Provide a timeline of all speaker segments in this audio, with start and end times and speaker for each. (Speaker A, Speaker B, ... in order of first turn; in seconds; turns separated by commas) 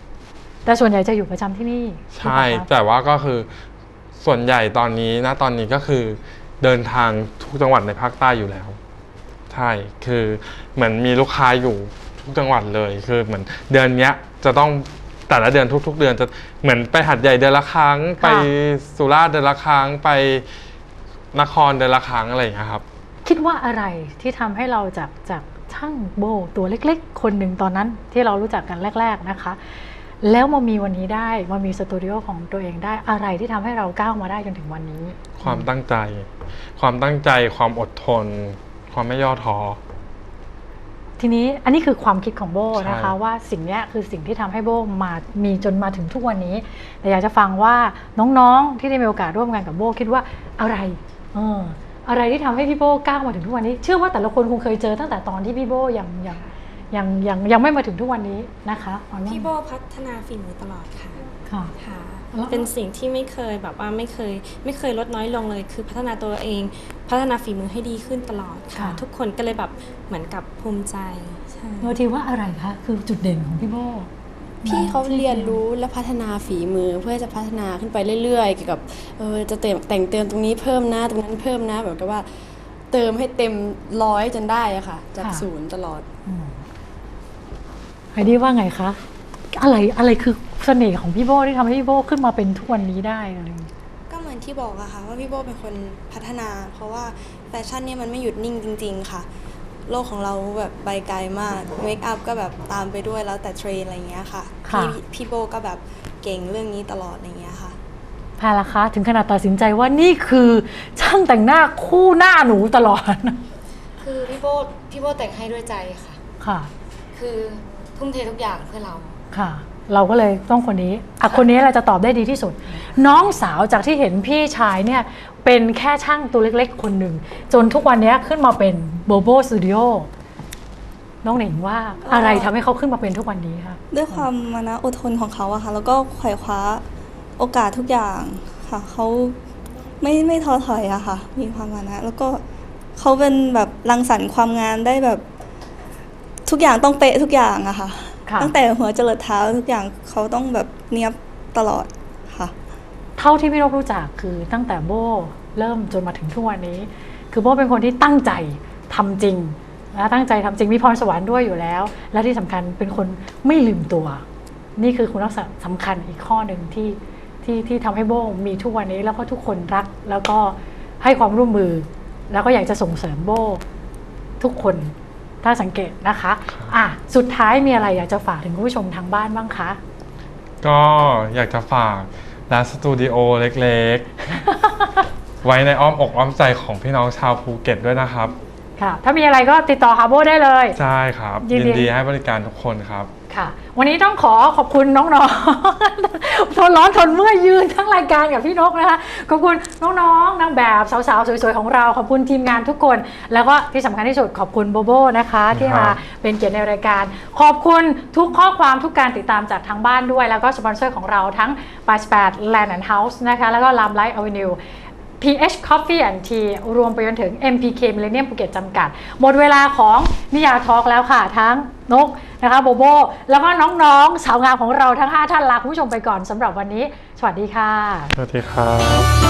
Speaker A: 0.7-2.7, Speaker B: 2.1-3.5, Speaker B: 4.2-8.8, Speaker B: 9.5-20.5, Speaker A: 18.2-18.5, Speaker B: 21.3-22.8, Speaker A: 23.2-29.6, Speaker A: 30.2-35.7, Speaker B: 35.4-39.8, Speaker A: 41.2-59.5, Speaker B: 42.8-43.1, Speaker C: 59.2-72.0, Speaker A: 62.3-62.7, Speaker A: 68.7-69.0, Speaker A: 71.8-74.1, Speaker A: 74.6-75.6, Speaker D: 74.6-82.2, Speaker D: 82.9-86.0, Speaker A: 85.2-85.5, Speaker A: 86.2-86.6, Speaker A: 88.1-89.0, Speaker A: 89.5-93.7, Speaker E: 94.1-99.3, Speaker E: 99.9-107.8, Speaker A: 104.7-105.0, Speaker A: 108.4-113.4, Speaker F: 114.0-116.2, Speaker A: 116.4-116.7, Speaker F: 117.1-119.2, Speaker A: 119.3-130.1, Speaker A: 131.2-134.3, Speaker E: 132.0-132.5, Speaker E: 133.9-136.8, Speaker E: 137.4-139.4, Speaker E: 140.0-142.4, Speaker E: 143.0-145.2, Speaker E: 146.4-152.5, Speaker A: 153.2-164.2, Speaker A: 164.8-173.6, Speaker A: 174.4-179.8, Speaker B: 180.6-184.4, Speaker A: 184.3-185.1, Speaker B: 185.4-188.3, Speaker A: 188.8-190.8, Speaker B: 190.7-193.1, Speaker A: 191.4-191.9, Speaker A: 193.3-214.6, Speaker B: 205.5-206.0, Speaker A: 215.2-228.1, Speaker B: 228.2-229.1